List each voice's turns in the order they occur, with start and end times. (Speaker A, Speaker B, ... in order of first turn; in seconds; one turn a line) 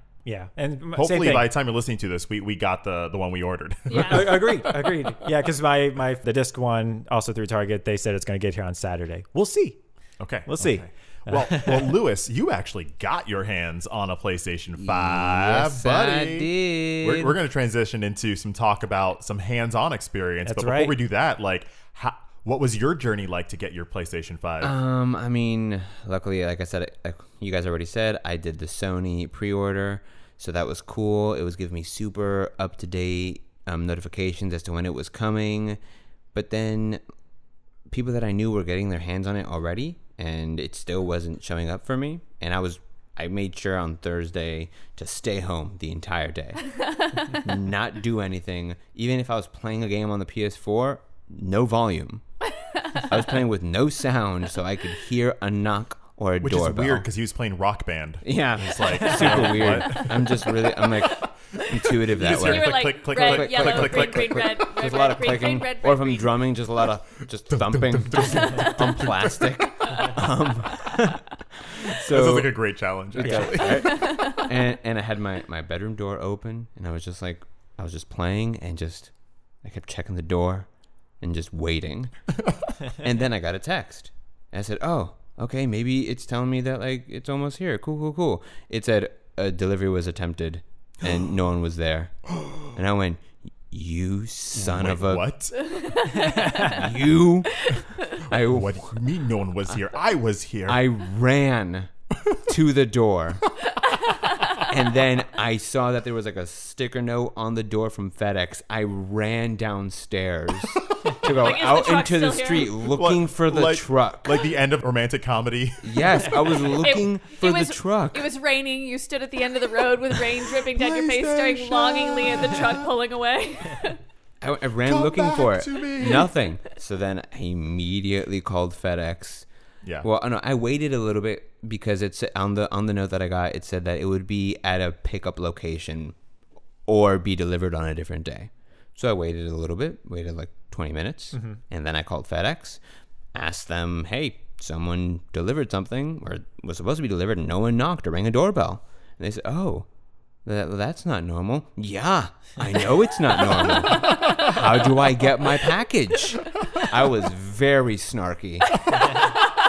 Speaker A: 0.2-1.5
Speaker B: 0.9-5.1
Speaker C: 3.9-4.5
Speaker A: 3.9-9.8
Speaker B: 10.2-24.7
Speaker A: 10.4-11.9
Speaker D: 14.8-17.3
Speaker A: 20.4-21.0
Speaker D: 24.6-35.8
Speaker D: 36.3-37.0
Speaker D: 37.9-46.7
Speaker D: 47.2-52.2
Speaker C: 52.6-53.1
Speaker D: 53.0-57.0
Speaker B: 56.4-61.0
Speaker D: 58.2-72.6
Speaker B: 61.8-64.7
Speaker C: 62.2-66.3
Speaker B: 67.5-69.9
Speaker B: 72.0-74.3
Speaker D: 73.1-79.1
Speaker A: 73.2-73.5
Speaker C: 73.7-74.5
Speaker D: 79.6-80.7
Speaker D: 81.2-82.1
Speaker D: 83.0-95.3
Speaker B: 94.5-95.5
Speaker C: 95.7-96.8
Speaker A: 96.2-96.7
Speaker D: 96.6-98.9
Speaker B: 98.3-100.8
Speaker D: 100.7-101.9
Speaker D: 102.5-103.5
Speaker C: 103.9-104.6
Speaker D: 104.6-114.5
Speaker C: 111.2-112.8
Speaker B: 112.9-116.7
Speaker D: 115.8-118.3
Speaker C: 116.8-124.0
Speaker B: 120.6-122.8
Speaker D: 124.4-129.5
Speaker B: 124.8-126.3
Speaker D: 130.0-136.1
Speaker D: 136.9-142.8
Speaker A: 141.3-141.6
Speaker D: 143.3-149.9
Speaker D: 150.4-158.8